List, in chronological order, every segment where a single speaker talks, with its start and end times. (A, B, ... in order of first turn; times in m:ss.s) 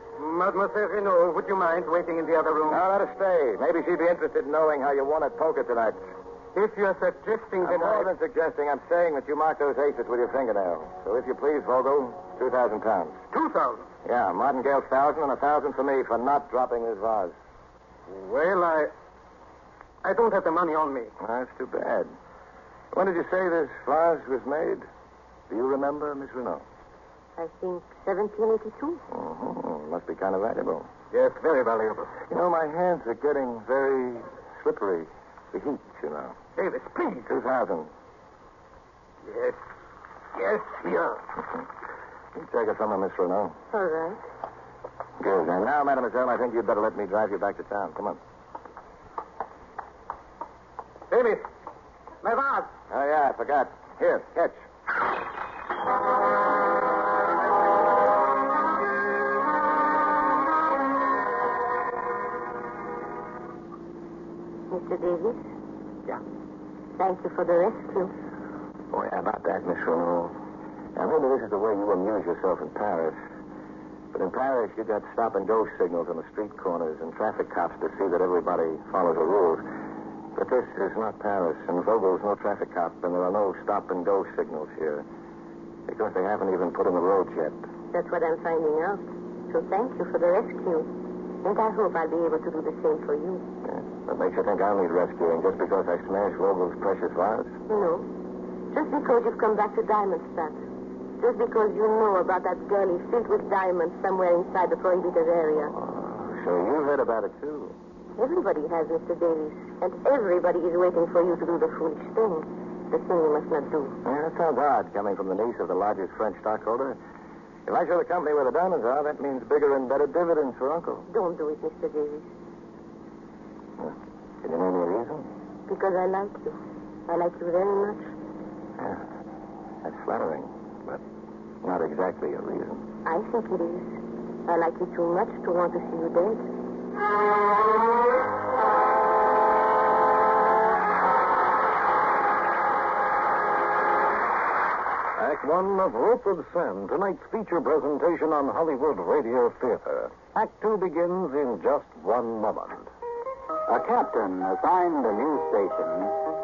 0:00.2-0:02.8 A
0:02.7-0:06.0 B
0:06.5-0:08.1 A
0:07.6-0:13.2 B
0:13.3-0:13.8 A
0:14.0-0:17.4 B
0:18.1-0:18.9 A
0:20.0-0:21.1 A
0:21.2-0:22.1 B
0:22.9-0:24.9 B
0:25.5-0:26.6 B
0:27.4-0:29.0 C
0:29.1-0:30.9 B
0:31.2-0:32.0 A
0:32.3-0:36.4 B
0:36.6-0:37.2 A
0:37.2-0:37.9 B
0:39.3-0:39.6 A
0:40.4-0:41.2 A
0:42.4-0:43.6 B
0:43.7-0:44.2 C
0:45.2-0:48.2 B
0:51.1-0:51.5 A
0:52.2-0:52.7 A
0:52.9-0:54.6 B
1:04.7-1:05.4 C
1:07.0-1:08.1 C
1:08.9-1:10.4 B
1:11.0-1:13.2 B
1:14.1-1:19.7 B
1:20.4-1:25.0 B
1:25.9-1:27.6 B
1:27.9-1:30.9 C
1:31.4-1:33.4 C
1:33.6-1:37.5 B
1:37.7-1:38.1 C
1:38.7-1:40.6 C
1:41.2-1:45.7 C
1:45.7-1:47.8 B
1:48.2-1:54.0 C
1:54.0-1:57.0 B
1:57.7-2:01.1 B
2:01.1-2:02.3 C
2:03.8-2:05.3 B
2:05.7-2:08.1 C
2:08.8-2:09.0 B
2:09.8-2:11.0 B
2:11.6-2:12.8 B
2:13.0-2:16.5 C
2:25.2-2:32.9 D
2:33.7-2:36.2 E